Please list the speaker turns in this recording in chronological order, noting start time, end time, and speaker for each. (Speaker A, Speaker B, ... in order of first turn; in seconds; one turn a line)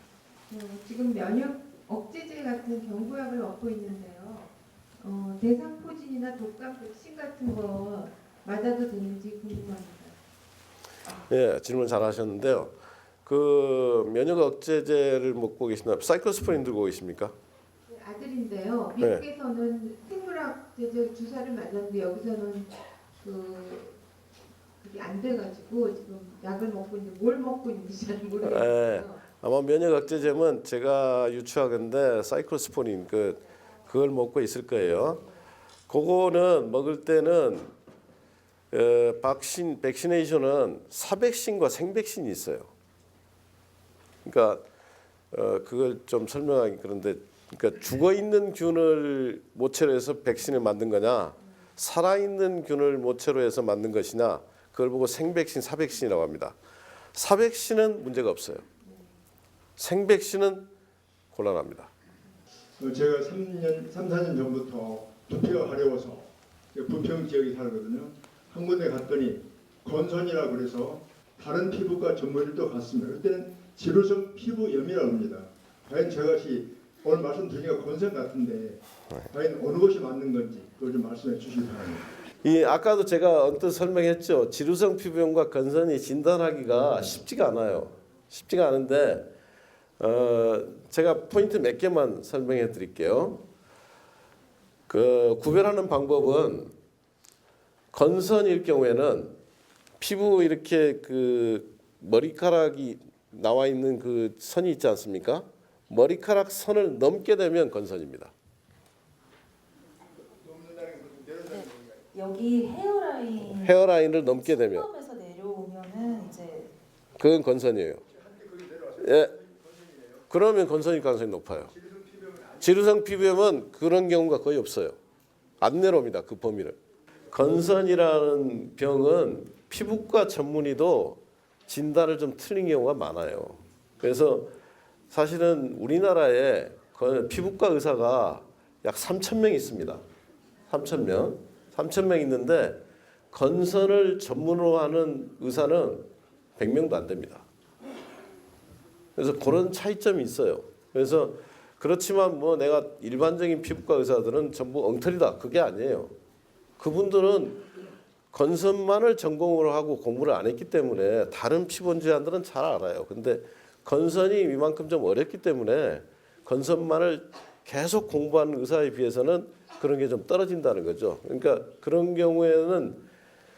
Speaker A: 0.5-10.2
Speaker B: 11.3-12.7
Speaker B: 13.2-17.3
Speaker A: 17.9-23.9
Speaker A: 24.8-29.2
Speaker B: 28.4-35.2
Speaker B: 35.9-37.7
Speaker B: 38.7-42.7
Speaker B: 44.2-44.6
Speaker B: 45.3-56.6
Speaker B: 57.1-58.6
Speaker B: 59.8-60.7
Speaker B: 61.3-61.9
Speaker C: 62.8-82.1
Speaker B: 82.4-89.3
Speaker B: 90.0-93.4
Speaker B: 94.9-96.7
Speaker B: 97.9-99.4
Speaker B: 100.0-108.3
Speaker C: 110.4-111.7
Speaker D: 111.5-116.7
Speaker B: 113.4-114.9
Speaker B: 117.2-118.0
Speaker C: 118.2-120.2
Speaker B: 119.0-119.3
Speaker B: 120.3-121.7
Speaker C: 121.8-122.6
Speaker B: 122.6-125.0
Speaker B: 125.6-126.8
Speaker B: 127.3-134.5
Speaker B: 135.1-140.0
Speaker B: 140.7-147.4
Speaker B: 149.2-156.1
Speaker B: 156.8-157.6
Speaker B: 158.3-173.0